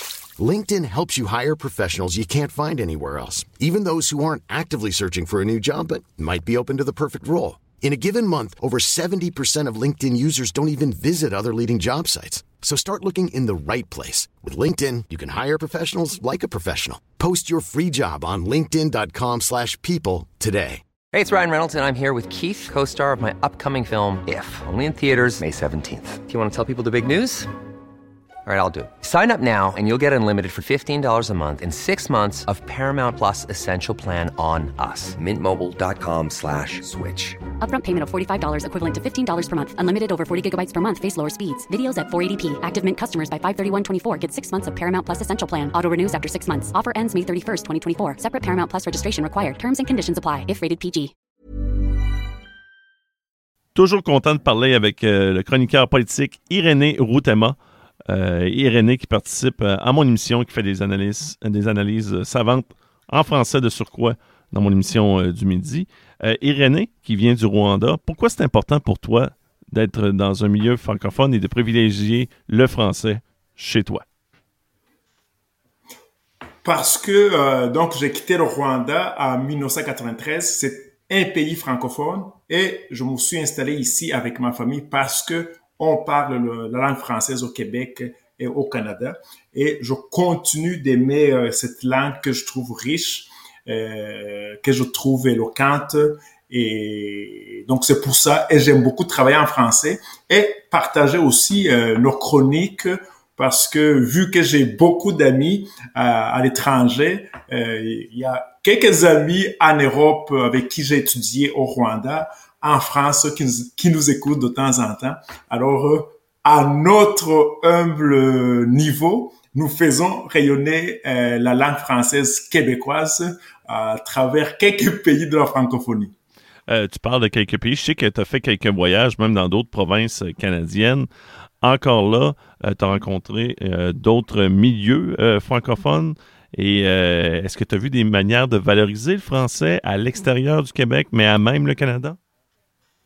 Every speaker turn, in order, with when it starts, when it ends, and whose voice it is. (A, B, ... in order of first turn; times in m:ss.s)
0:00.4-0:20.8 A
0:21.1-0:27.5 B
0:28.5-0:37.4 B
0:37.6-0:51.1 C
0:53.8-0:57.6 D
0:58.1-1:14.0 D
1:16.6-2:06.1 E
2:06.7-2:11.1 D
2:11.6-2:22.2 D